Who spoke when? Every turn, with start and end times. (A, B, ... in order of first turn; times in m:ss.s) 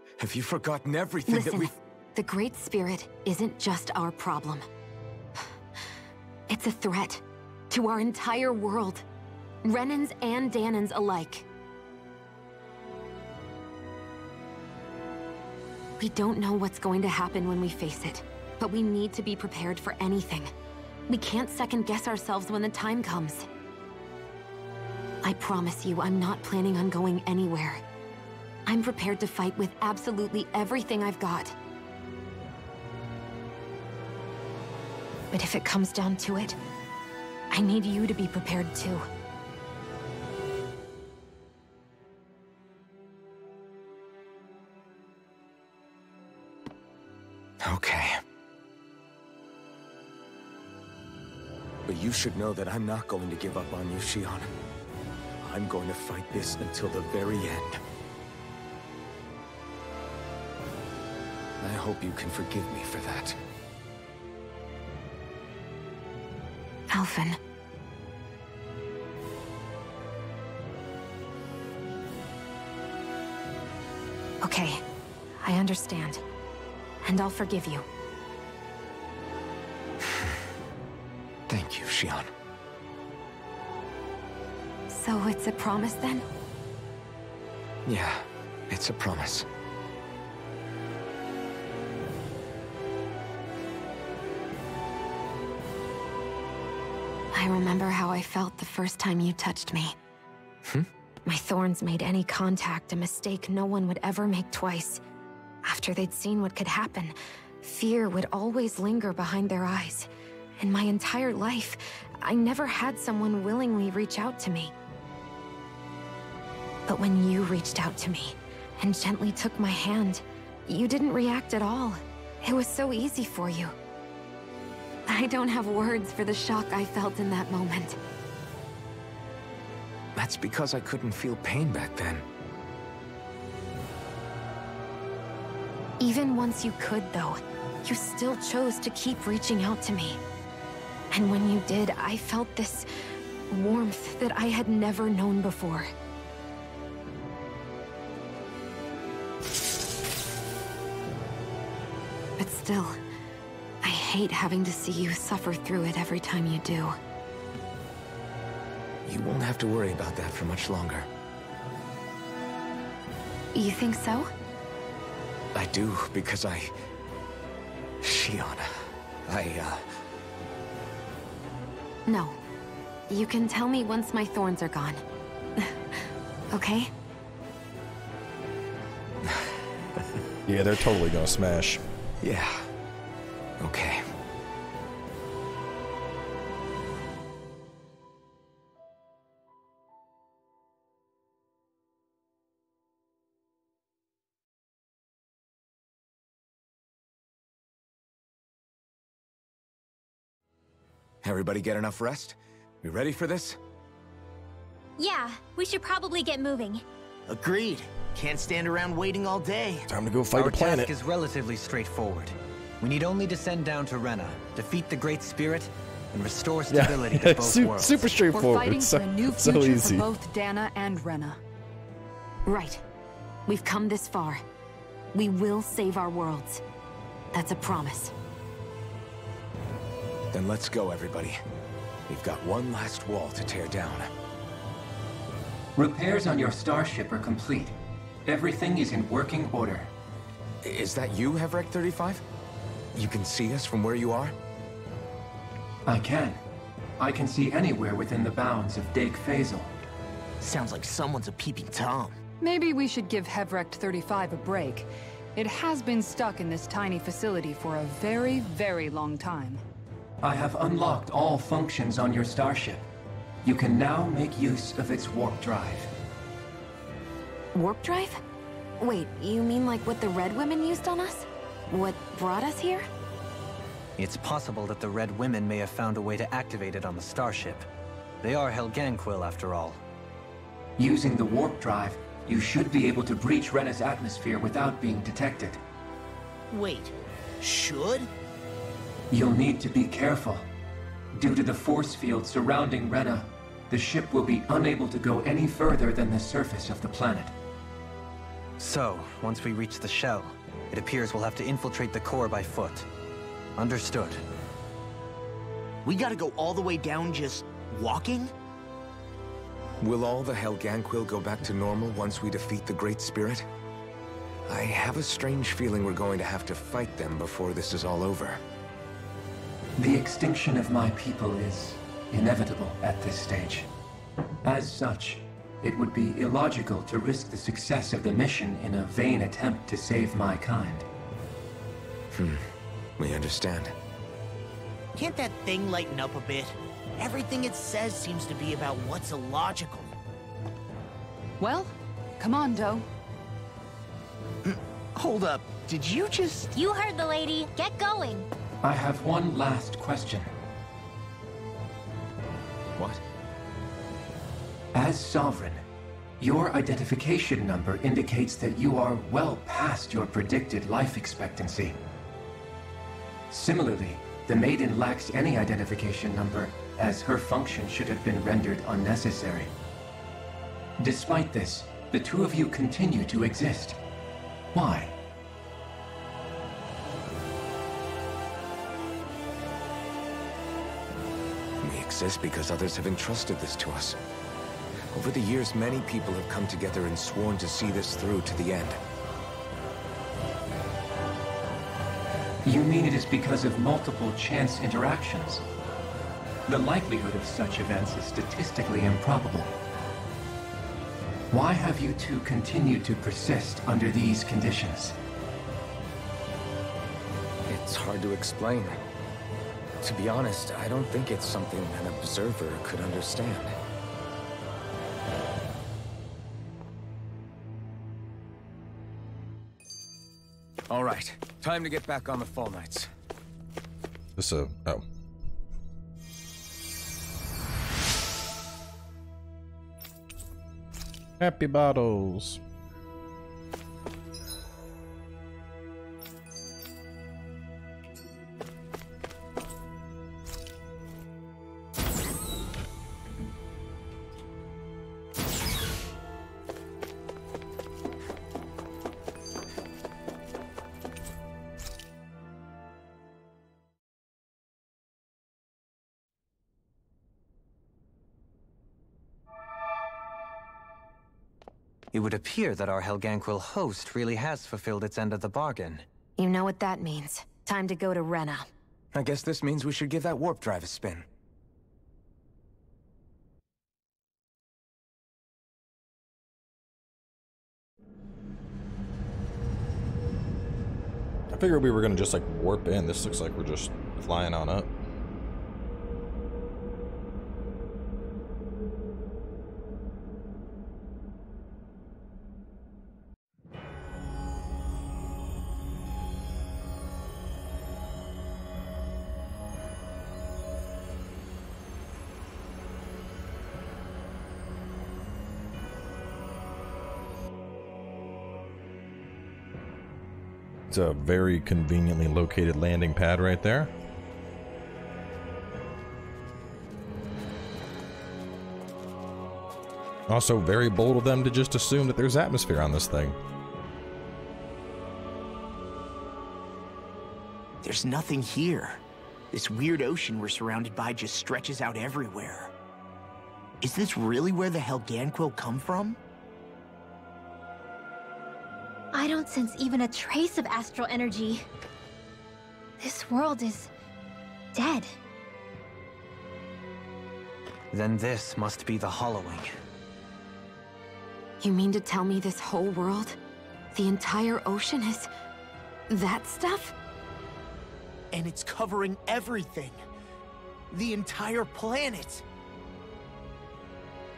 0:00.2-0:01.7 A
0:01.3-0:04.6 B
0:06.5-0:09.0 B
0:09.6-0:11.5 B
0:16.0-0:20.5 B
0:21.1-0:23.5 B
0:25.2-0:27.8 B
0:28.6-0:31.5 B
0:35.3-0:36.6 B
0:37.5-0:39.0 B
0:47.6-0:48.2 A
0:51.8-0:54.5 A
0:55.4-0:57.8 A
1:01.6-1:03.4 A
1:06.9-1:07.4 B
1:14.4-1:14.8 B
1:15.4-1:16.2 B
1:17.0-1:17.8 B
1:20.0-1:20.4 A
1:21.5-1:22.3 A
1:24.9-1:26.2 B
1:27.8-1:29.4 A
1:37.3-1:39.9 B
1:41.2-1:45.0 B
1:45.6-1:54.7 B
1:56.9-2:03.7 B
2:05.1-2:08.0 B
2:10.1-2:12.2 A
2:16.0-2:20.2 B
2:21.1-2:22.9 B
2:23.5-2:25.9 B
2:32.4-2:33.0 B
2:33.8-2:36.9 B
2:39.0-2:41.1 A
2:43.5-2:44.3 B
2:45.5-2:46.7 A
2:48.0-2:49.8 A
2:52.1-2:52.4 B
2:53.1-2:55.0 B
2:55.6-2:56.9 B
2:59.2-3:00.0 A
3:00.5-3:01.8 C
3:02.2-3:02.7 A
3:03.6-3:04.0 A
3:21.2-3:23.6 A
3:25.0-3:26.8 D
3:27.3-3:29.9 E
3:29.9-3:30.9 C
3:30.3-3:38.0 F
3:36.7-3:40.0 C
3:38.3-3:41.4 G
3:42.4-3:42.8 B
3:43.4-3:44.4 B
3:45.1-3:46.6 B
3:47.3-3:48.1 B
3:50.3-3:51.4 A
3:52.1-3:54.1 A
3:55.8-3:57.7 H
3:58.2-3:59.9 H
4:00.6-4:02.2 A
4:02.9-4:04.3 A
4:05.8-4:06.4 H
4:07.0-4:09.7 H
4:10.4-4:12.2 E
4:12.4-4:19.6 G
4:20.2-4:22.8 H
4:23.4-4:25.9 H
4:27.5-4:28.2 B
4:28.8-4:32.8 B
4:34.0-4:37.7 F
4:38.2-4:39.8 F
4:40.8-4:45.6 H
4:46.5-4:48.1 E
4:49.1-4:50.5 H
4:51.1-4:57.3 H
4:58.6-5:02.9 F
5:03.6-5:04.2 F
5:05.8-5:08.3 E
5:09.8-5:13.4 A
5:14.5-5:18.4 A
5:19.8-5:23.7 H
5:24.4-5:30.8 H
5:32.1-5:33.7 A
5:35.0-5:39.9 E
5:41.4-5:42.8 G
5:44.4-5:46.5 E
5:46.5-5:48.3 D
5:48.6-5:50.3 H
5:52.8-5:53.0 A
5:54.7-5:55.6 H
5:56.2-6:01.8 H
6:03.3-6:09.5 H
6:10.8-6:13.8 H
6:14.5-6:14.9 H
6:21.6-6:24.0 A
6:24.9-6:28.8 A
6:32.4-6:35.4 H
6:36.5-6:39.5 H
6:41.3-6:45.0 H
6:47.5-6:48.8 A
6:49.8-6:53.6 A
7:00.7-7:02.9 A
7:04.2-7:04.8 C
7:11.2-7:12.4 C
7:41.9-7:45.8 F
7:46.2-7:48.5 B
7:48.9-7:51.0 A
8:01.3-8:04.7 C
8:30.7-8:33.7 C
8:40.1-8:43.2 C
8:47.6-8:52.5 E
8:53.6-8:56.0 E
8:58.9-9:01.4 D
9:02.8-9:03.7 D
9:04.5-9:04.9 D
9:07.7-9:09.5 F
9:11.4-9:13.2 B
9:13.7-9:15.1 B
9:15.9-9:16.7 B
9:18.1-9:19.8 E
9:20.7-9:22.2 E